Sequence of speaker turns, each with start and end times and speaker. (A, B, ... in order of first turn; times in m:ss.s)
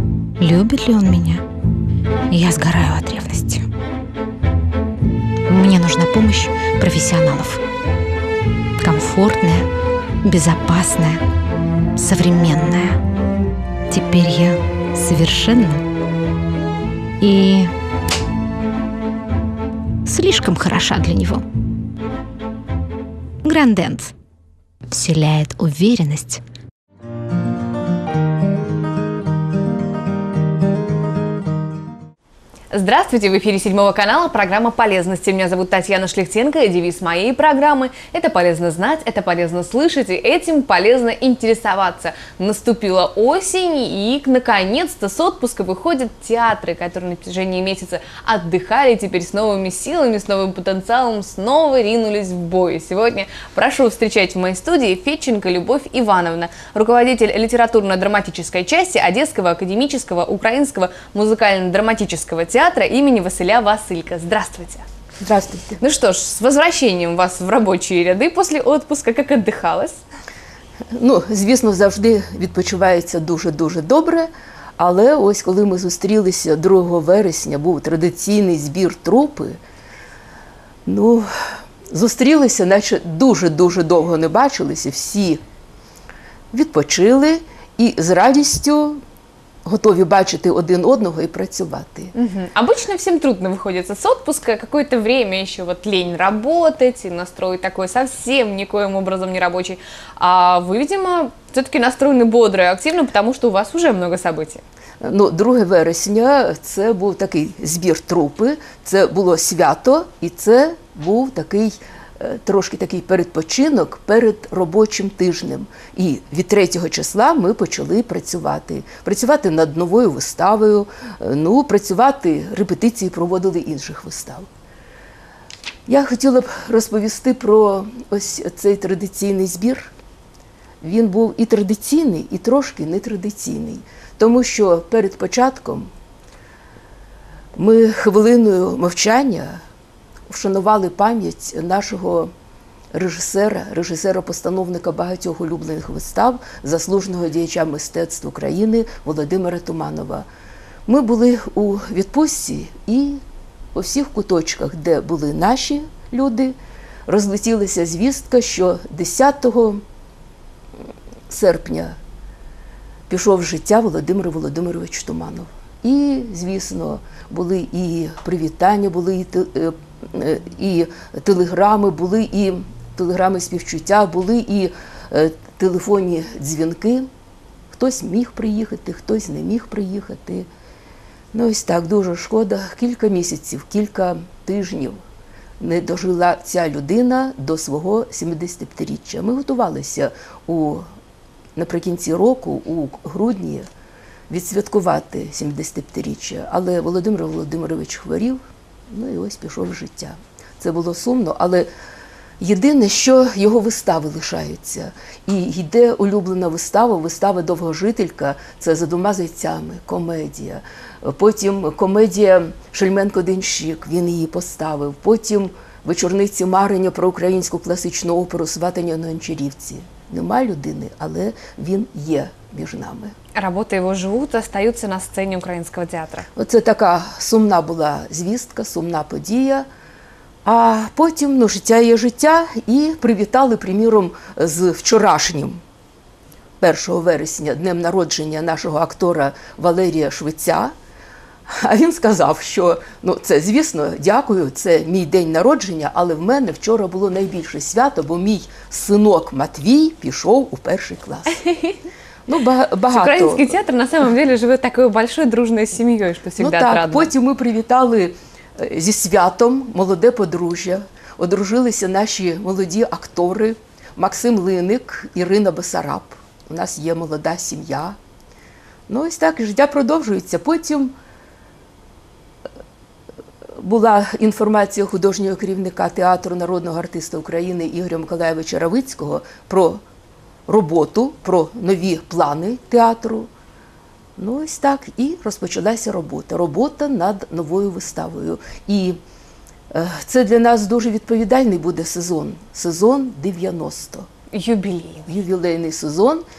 0:00.4-0:01.4 A
0:02.3-0:03.7 A
0:05.5-0:07.6 A
0:08.8-0:09.7 A
0:10.2-0:11.2 A
0:12.0-0:13.0 A
0:13.9-0:15.9 A
0:17.2-0:17.7 A
0:20.1-0:21.4 A
0:23.4-0:24.1 A
0:24.9-0:26.4 A
0:32.7-1:04.8 B
1:05.2-1:05.8 C
1:05.8-1:10.0 B
1:10.9-1:19.6 C
1:20.9-1:25.4 C
1:26.5-1:29.0 C
1:29.6-1:32.1 C
1:32.2-1:44.6 B
1:45.0-2:04.5 C
2:05.9-2:09.9 C
2:10.8-2:15.9 C
2:17.6-2:19.6 C
2:20.3-2:22.3 C
2:22.9-2:30.3 C
2:30.9-2:33.2 C
2:33.8-2:39.8 C
2:41.3-2:42.0 C
2:43.1-2:57.1 C
2:57.7-3:00.5 C
3:01.3-3:05.0 C
3:05.6-3:10.8 C
3:11.6-3:13.7 C
3:14.3-3:21.7 C
3:22.4-3:43.1 C
3:43.4-3:46.3 B
3:46.4-3:49.7 C
3:50.4-3:55.6 C
3:56.6-4:00.7 C
4:01.5-4:11.4 C
4:11.5-4:11.8 B
4:12.3-4:13.6 C
4:12.9-4:17.1 B
4:16.4-4:28.0 C
4:28.9-4:30.9 C
4:33.6-4:39.8 C
4:40.5-4:43.3 C
4:44.2-4:49.0 C
4:49.7-4:54.1 C
4:54.3-4:55.1 B
4:55.1-4:56.2 C